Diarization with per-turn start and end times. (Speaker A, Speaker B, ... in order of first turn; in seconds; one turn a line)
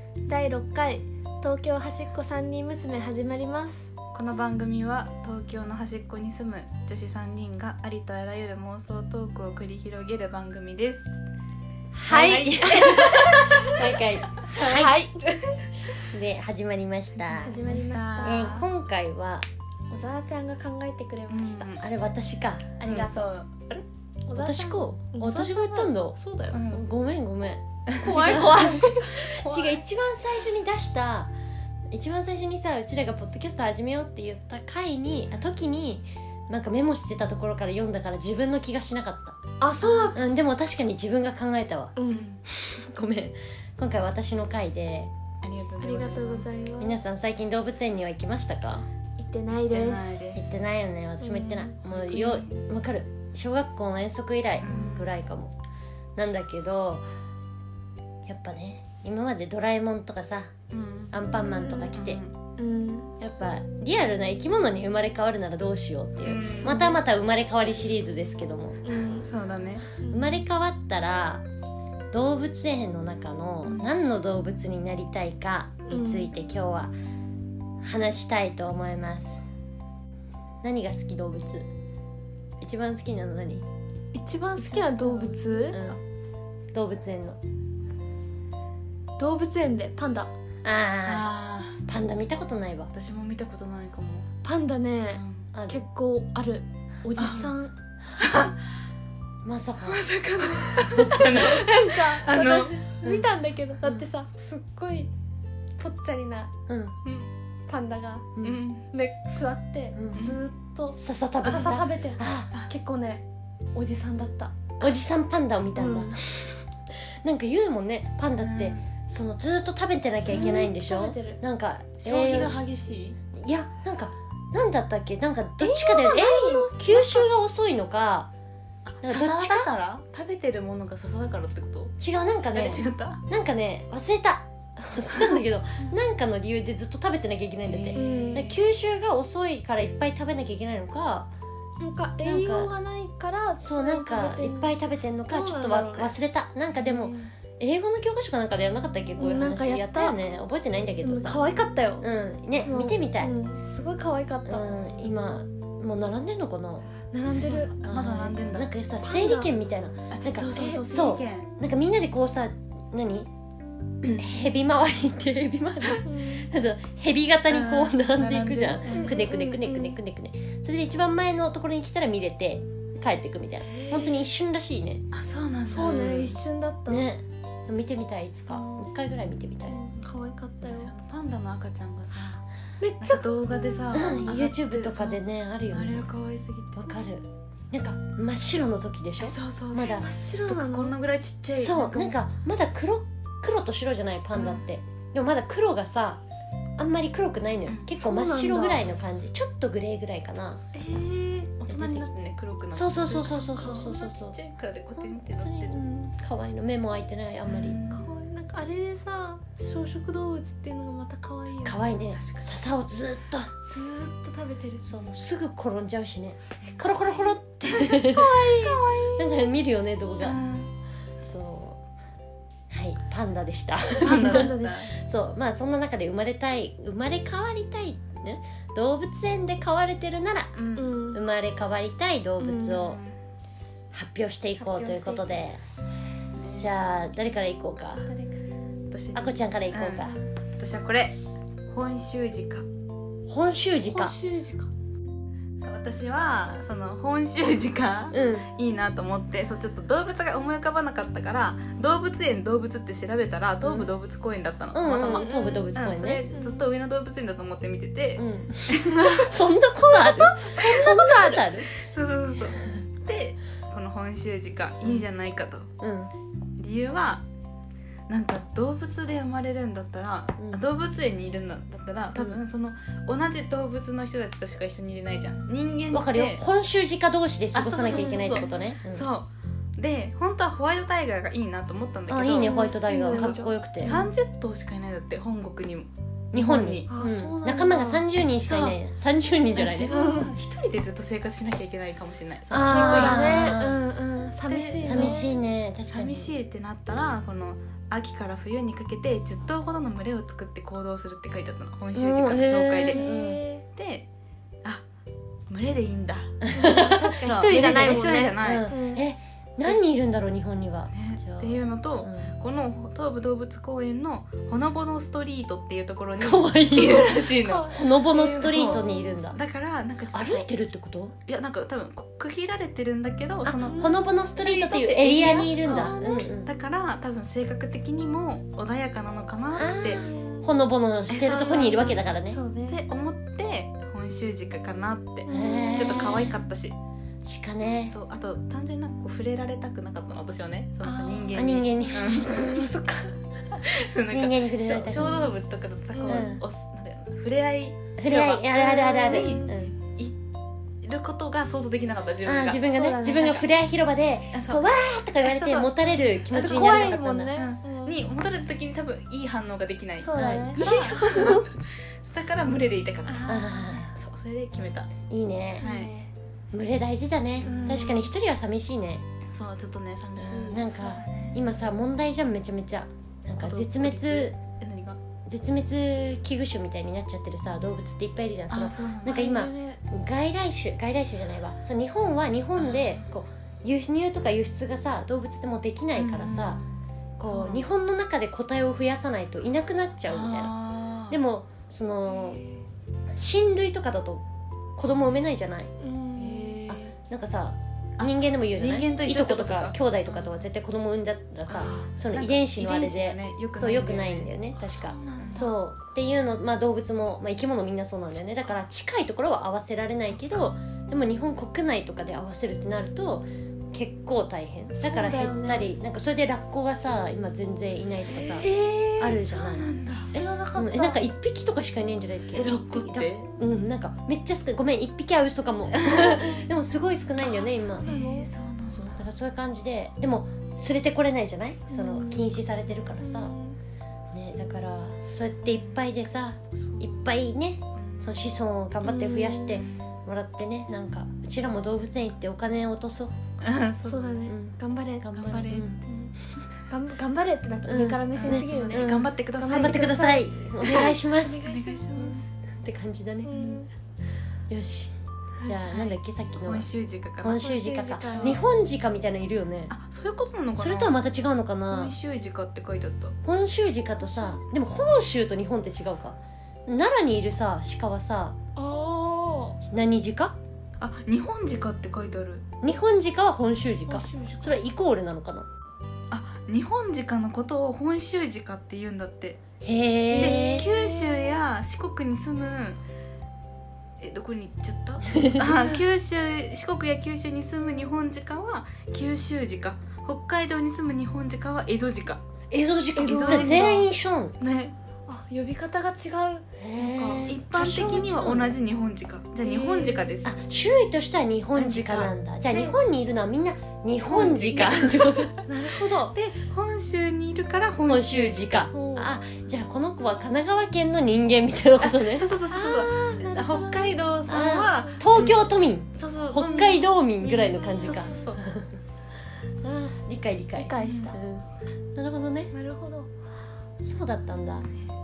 Speaker A: 0.2-3.9
Speaker B: 4.1-11.1
Speaker C: 12.0-14.9
Speaker A: 12.0-14.0
Speaker B: 12.1-13.7
Speaker A: 14.5-15.6
Speaker C: 16.0-17.6
Speaker B: 17.3-18.6
Speaker A: 17.4-18.6
Speaker C: 18.2-19.4
Speaker A: 19.9-21.7
Speaker B: 21.3-21.8
Speaker C: 21.8-23.8
Speaker B: 22.8-23.7
Speaker A: 24.3-26.6
Speaker C: 24.3-31.3
Speaker B: 26.5-26.8
Speaker B: 27.9-28.6
Speaker A: 28.0-29.4
Speaker B: 29.2-29.8
Speaker C: 31.9-39.4
Speaker A: 39.6-40.2
Speaker B: 39.8-40.1
Speaker C: 40.1-41.9
Speaker A: 42.0-42.3
Speaker B: 42.1-42.4
Speaker C: 42.5-45.1
Speaker B: 45.4-46.5
Speaker A: 45.8-47.0
Speaker C: 46.8-48.9
Speaker A: 49.2-50.2
Speaker B: 49.7-50.4
Speaker C: 50.3-55.5
Speaker A: 51.2-51.8
Speaker B: 51.9-52.6
Speaker B: 54.6-55.1
Speaker C: 56.1-57.0
Speaker C: 58.2-60.5
Speaker B: 60.7-61.1
Speaker C: 61.1-62.2
Speaker A: 61.5-61.9
Speaker B: 61.7-62.3
Speaker A: 62.6-63.1
Speaker C: 63.2-68.8
Speaker B: 66.2-66.9
Speaker A: 66.6-67.0
Speaker A: 68.8-69.3
Speaker B: 69.2-69.9
Speaker A: 70.0-70.4
Speaker C: 70.1-71.4
Speaker C: 72.1-76.9
Speaker A: 75.9-76.3
Speaker C: 77.8-79.5
Speaker C: 80.6-81.7
Speaker C: 82.6-83.6
Speaker A: 84.1-85.8
Speaker B: 84.9-85.3
Speaker C: 85.7-86.0
Speaker C: 86.7-87.4
Speaker A: 89.2-90.3
Speaker C: 90.6-91.3
Speaker B: 91.0-91.8
Speaker C: 91.8-92.9
Speaker B: 92.9-94.3
Speaker A: 94.4-97.7
Speaker B: 95.1-95.5
Speaker C: 95.5-95.8
Speaker B: 97.2-97.5
Speaker B: 98.2-98.5
Speaker C: 99.4-100.1
Speaker B: 99.9-103.2
Speaker A: 100.1-105.1
Speaker C: 101.0-101.5
Speaker A: 105.8-106.5
Speaker C: 106.7-106.9
Speaker A: 107.7-108.3
Speaker C: 108.3-108.6
Speaker B: 108.4-108.8
Speaker A: 108.9-113.2
Speaker C: 110.0-110.2
Speaker B: 110.1-110.4
Speaker C: 111.0-112.5
Speaker B: 111.5-111.8
Speaker A: 113.7-114.6
Speaker C: 114.8-116.3
Speaker A: 115.8-116.2
Speaker C: 117.2-122.6
Speaker B: 118.4-118.8
Speaker A: 120.2-121.4
Speaker B: 122.0-123.2
Speaker C: 123.3-128.3
Speaker A: 125.6-127.2
Speaker B: 128.8-131.9
Speaker C: 129.0-129.7
Speaker C: 132.0-141.3
Speaker B: 132.5-133.2
Speaker B: 135.1-135.4
Speaker B: 137.7-138.6
Speaker A: 137.9-138.5
Speaker A: 141.8-144.7
Speaker C: 142.2-142.7
Speaker C: 143.6-151.4
Speaker A: 145.3-146.1
Speaker B: 146.7-147.3
Speaker A: 149.2-150.2
Speaker A: 151.0-152.1
Speaker C: 152.0-153.3
Speaker A: 152.6-154.7
Speaker C: 154.4-156.9
Speaker A: 157.1-157.7
Speaker B: 157.6-158.7
Speaker C: 157.8-163.3
Speaker A: 159.0-159.5
Speaker B: 160.1-161.5
Speaker A: 160.5-160.8
Speaker C: 164.2-175.0
Speaker A: 166.0-166.5
Speaker B: 167.5-169.2
Speaker A: 168.9-170.0
Speaker B: 173.7-174.2
Speaker B: 175.1-176.0
Speaker A: 175.7-177.1
Speaker C: 175.7-176.3
Speaker C: 176.9-179.8
Speaker A: 178.5-178.9
Speaker A: 179.7-180.9
Speaker B: 180.6-182.4
Speaker C: 182.8-183.2
Speaker B: 183.0-186.8
Speaker C: 183.9-186.1
Speaker C: 186.8-190.1
Speaker B: 189.2-192.2
Speaker A: 189.8-190.9
Speaker C: 191.5-196.2
Speaker B: 194.3-194.6
Speaker C: 196.8-200.6
Speaker A: 198.0-199.0
Speaker A: 200.7-201.5
Speaker B: 201.6-205.8
Speaker C: 201.7-202.1
Speaker C: 202.7-204.3
Speaker A: 203.2-204.0
Speaker C: 205.0-207.8
Speaker B: 207.4-208.1
Speaker A: 207.9-211.8
Speaker C: 211.6-213.5
Speaker B: 212.1-212.4
Speaker A: 213.6-214.9
Speaker C: 214.8-218.5
Speaker A: 216.7-218.8
Speaker B: 218.5-219.3
Speaker C: 219.2-220.4
Speaker B: 220.2-220.7
Speaker C: 221.2-221.8
Speaker C: 222.7-230.5
Speaker A: 224.0-224.9
Speaker B: 224.0-224.9
Speaker B: 230.5-230.9
Speaker A: 230.8-231.2
Speaker C: 231.1-233.0
Speaker A: 232.4-232.8
Speaker B: 232.6-233.2
Speaker C: 233.9-235.6
Speaker A: 234.6-235.4
Speaker B: 236.3-236.8
Speaker C: 236.6-238.1
Speaker A: 238.0-238.4
Speaker B: 238.9-241.2
Speaker C: 239.1-240.2
Speaker B: 241.7-242.7
Speaker C: 243.3-244.1
Speaker A: 243.8-244.7
Speaker B: 245.6-259.0
Speaker C: 248.1-248.5
Speaker C: 253.6-253.9
Speaker C: 254.7-256.2
Speaker A: 255.1-255.7
Speaker A: 256.3-256.7
Speaker C: 258.2-261.7
Speaker A: 258.9-261.4
Speaker B: 261.7-265.7
Speaker C: 265.8-266.1
Speaker B: 266.6-267.2
Speaker B: 268.1-276.4
Speaker C: 270.4-270.6
Speaker C: 275.9-279.1
Speaker B: 277.5-286.9
Speaker A: 277.8-278.5
Speaker C: 282.1-283.9
Speaker A: 282.4-284.1
Speaker C: 286.3-289.9
Speaker A: 286.9-288.1
Speaker B: 288.4-288.8
Speaker B: 289.5-293.6
Speaker A: 289.9-290.3
Speaker C: 292.5-293.8
Speaker A: 292.6-295.3
Speaker B: 294.5-295.3
Speaker C: 294.8-296.3
Speaker B: 295.9-303.1
Speaker C: 301.9-303.4
Speaker A: 302.9-303.6
Speaker B: 303.6-304.1
Speaker B: 305.5-306.5
Speaker C: 306.4-312.3
Speaker A: 306.5-309.0
Speaker B: 307.2-308.7
Speaker B: 310.9-317.7
Speaker C: 316.2-319.4
Speaker A: 317.4-319.3
Speaker B: 318.3-320.5
Speaker C: 320.1-321.1
Speaker B: 321.3-323.8
Speaker C: 323.4-326.5
Speaker A: 323.6-324.0
Speaker B: 324.4-330.0
Speaker A: 325.6-326.3
Speaker C: 329.5-332.4
Speaker A: 329.9-330.5
Speaker B: 331.1-332.0
Speaker A: 331.1-332.8
Speaker B: 332.7-336.7
Speaker A: 335.3-336.3
Speaker C: 335.3-336.3
Speaker C: 337.2-337.9
Speaker B: 337.9-342.6
Speaker A: 340.8-343.1
Speaker C: 341.3-342.6
Speaker B: 343.6-350.1
Speaker C: 344.1-345.2
Speaker A: 345.0-345.3
Speaker A: 345.9-346.3
Speaker C: 346.1-346.4
Speaker C: 348.0-349.7
Speaker A: 348.6-349.6
Speaker B: 350.8-352.6
Speaker C: 352.2-357.3
Speaker A: 352.6-353.4
Speaker B: 354.3-354.7
Speaker B: 355.3-355.7
Speaker B: 356.3-363.3
Speaker A: 356.3-358.0
Speaker A: 360.0-361.4
Speaker C: 360.1-361.5
Speaker A: 363.1-363.9
Speaker C: 363.3-363.9
Speaker B: 363.9-364.9
Speaker C: 365.1-365.6
Speaker A: 365.6-366.1
Speaker B: 365.6-365.9
Speaker C: 366.5-369.0
Speaker B: 367.4-367.8
Speaker A: 367.4-368.1
Speaker B: 369.3-371.4
Speaker C: 370.2-374.4
Speaker B: 373.4-375.0
Speaker C: 375.3-386.6
Speaker B: 378.5-379.3
Speaker A: 379.1-379.8
Speaker B: 382.6-383.1
Speaker B: 385.9-387.7
Speaker C: 387.2-390.5
Speaker B: 390.1-391.2
Speaker C: 391.1-392.4
Speaker C: 393.1-394.2
Speaker C: 394.8-395.7
Speaker A: 395.8-396.6
Speaker B: 396.1-396.9
Speaker C: 396.7-427.9
Speaker B: 398.0-400.4
Speaker B: 401.5-405.5
Speaker A: 404.9-405.5
Speaker A: 414.8-415.7
Speaker B: 418.1-420.1
Speaker A: 420.1-421.0
Speaker B: 422.3-423.3
Speaker B: 425.8-426.2
Speaker B: 427.2-429.0
Speaker A: 427.7-428.3
Speaker C: 428.7-433.3
Speaker A: 431.7-432.3
Speaker A: 433.0-433.6
Speaker C: 434.1-443.1
Speaker B: 436.6-437.0
Speaker B: 437.8-438.3
Speaker A: 438.8-439.6
Speaker B: 439.6-439.9
Speaker B: 443.4-444.3
Speaker A: 443.8-445.1
Speaker C: 444.3-445.8
Speaker B: 445.1-445.7
Speaker A: 445.8-446.1
Speaker A: 446.7-452.2
Speaker C: 447.6-451.4
Speaker B: 448.1-449.8
Speaker B: 450.6-450.9
Speaker B: 451.4-452.2
Speaker C: 452.6-453.4
Speaker A: 453.2-453.7
Speaker B: 453.3-453.6
Speaker C: 454.5-454.9
Speaker B: 455.4-457.4
Speaker C: 455.4-456.7
Speaker C: 457.2-459.7
Speaker A: 457.4-458.4
Speaker B: 458.1-458.4
Speaker B: 459.7-461.0
Speaker C: 460.6-461.9
Speaker B: 461.7-463.1
Speaker C: 463.2-468.4
Speaker A: 464.0-464.4
Speaker A: 468.6-469.6
Speaker C: 469.6-470.4
Speaker B: 470.8-472.4
Speaker C: 472.6-475.5
Speaker A: 473.9-474.6
Speaker B: 476.1-479.4
Speaker C: 479.6-480.6
Speaker A: 480.1-481.2
Speaker B: 480.1-482.8
Speaker B: 484.0-492.2
Speaker C: 485.1-485.5
Speaker C: 492.5-494.4
Speaker A: 492.9-493.8
Speaker B: 493.0-493.9
Speaker B: 494.4-494.7
Speaker A: 495.1-497.3
Speaker C: 496.6-498.6
Speaker B: 497.3-500.4
Speaker A: 499.4-500.1
Speaker C: 500.2-505.3
Speaker B: 501.5-502.1
Speaker B: 504.1-505.3
Speaker A: 504.2-504.7
Speaker A: 505.4-506.1
Speaker B: 506.1-508.6
Speaker C: 507.9-512.3
Speaker A: 508.7-509.1
Speaker B: 511.8-515.4
Speaker A: 512.5-515.0
Speaker C: 514.3-518.7
Speaker A: 516.0-518.4
Speaker B: 516.0-516.9
Speaker B: 517.8-518.5
Speaker C: 519.6-522.5
Speaker A: 520.5-521.2
Speaker B: 520.8-521.1
Speaker A: 522.5-523.1
Speaker C: 523.8-524.7